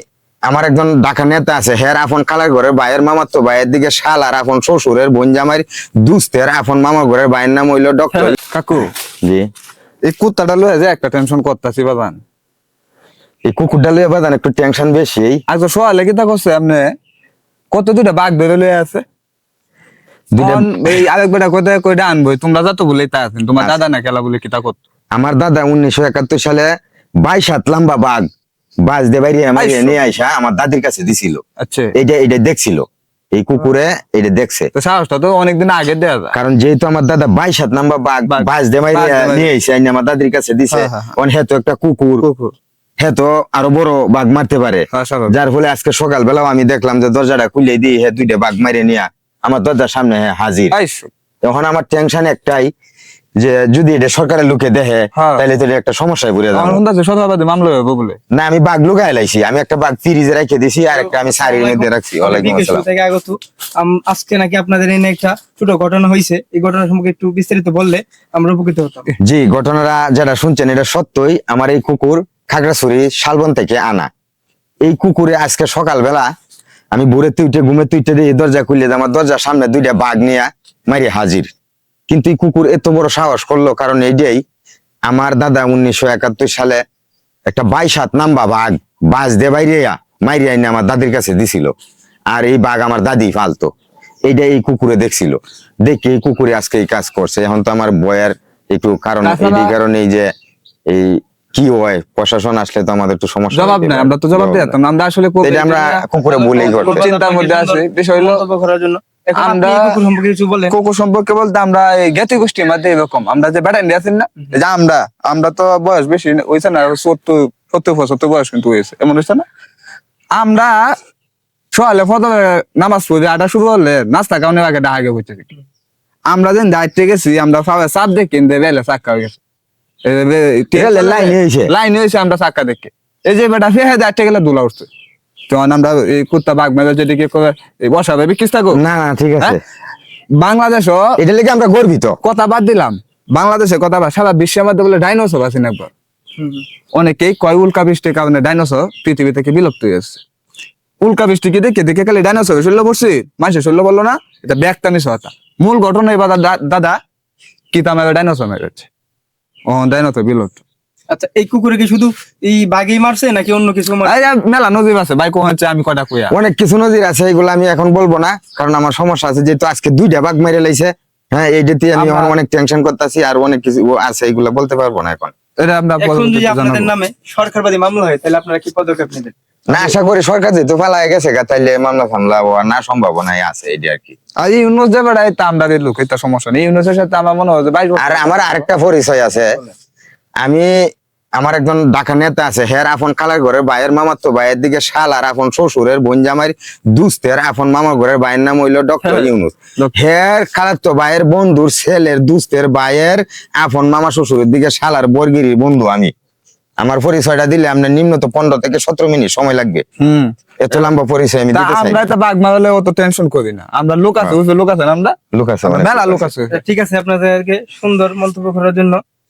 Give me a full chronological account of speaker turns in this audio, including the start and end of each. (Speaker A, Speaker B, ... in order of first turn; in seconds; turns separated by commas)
Speaker A: 0.5-8.4, Speaker B: 8.1-8.9, Speaker B: 10.0-12.2, Speaker A: 13.4-15.4, Speaker B: 15.5-16.9, Speaker B: 17.7-19.0, Speaker A: 20.3-21.0, Speaker B: 20.4-24.8, Speaker A: 25.1-26.7, Speaker A: 27.2-28.2, Speaker A: 28.8-31.4, Speaker B: 29.6-30.0, Speaker B: 31.6-31.9, Speaker A: 31.9-34.7, Speaker B: 34.7-36.3, Speaker A: 36.3-42.2, Speaker B: 38.3-39.5, Speaker B: 40.7-41.2, Speaker B: 42.2-42.5, Speaker A: 43.0-50.7, Speaker B: 44.9-45.3, Speaker B: 50.7-51.1, Speaker A: 51.4-52.7, Speaker A: 53.4-56.8, Speaker B: 55.1-55.4, Speaker B: 56.5-58.2, Speaker A: 58.3-62.8, Speaker C: 60.9-69.1, Speaker A: 69.2-74.1, Speaker A: 74.8-76.3, Speaker A: 76.9-81.5, Speaker A: 82.1-84.4, Speaker A: 85.1-86.8, Speaker A: 87.5-91.7, Speaker A: 92.3-93.7, Speaker A: 94.3-100.3, Speaker B: 99.2-99.7, Speaker A: 100.9-104.7, Speaker B: 103.5-106.0, Speaker A: 105.4-107.1, Speaker C: 106.3-110.7, Speaker B: 106.8-108.4, Speaker B: 109.3-109.9, Speaker B: 110.7-119.4, Speaker B: 120.3-121.0, Speaker B: 121.7-125.5, Speaker B: 126.3-129.4, Speaker B: 130.0-134.9, Speaker A: 130.7-131.7, Speaker B: 135.5-138.8, Speaker A: 138.7-139.6, Speaker B: 140.4-141.1, Speaker A: 141.2-142.2, Speaker B: 142.2-145.9, Speaker C: 146.4-146.6, Speaker B: 146.9-150.2, Speaker B: 151.0-157.0, Speaker B: 157.7-158.9, Speaker B: 159.7-160.6, Speaker C: 161.1-164.2, Speaker B: 164.0-166.3, Speaker A: 166.3-175.3, Speaker B: 171.9-172.3, Speaker B: 175.6-176.9, Speaker C: 176.0-179.8, Speaker A: 179.7-184.2, Speaker B: 184.4-188.6, Speaker A: 188.0-189.6, Speaker A: 190.4-190.7, Speaker A: 191.4-206.1, Speaker B: 199.0-199.9, Speaker A: 206.8-209.8, Speaker B: 210.0-210.9, Speaker A: 210.6-212.0, Speaker B: 211.5-215.2, Speaker A: 215.3-216.3, Speaker B: 215.7-216.6, Speaker C: 216.5-219.0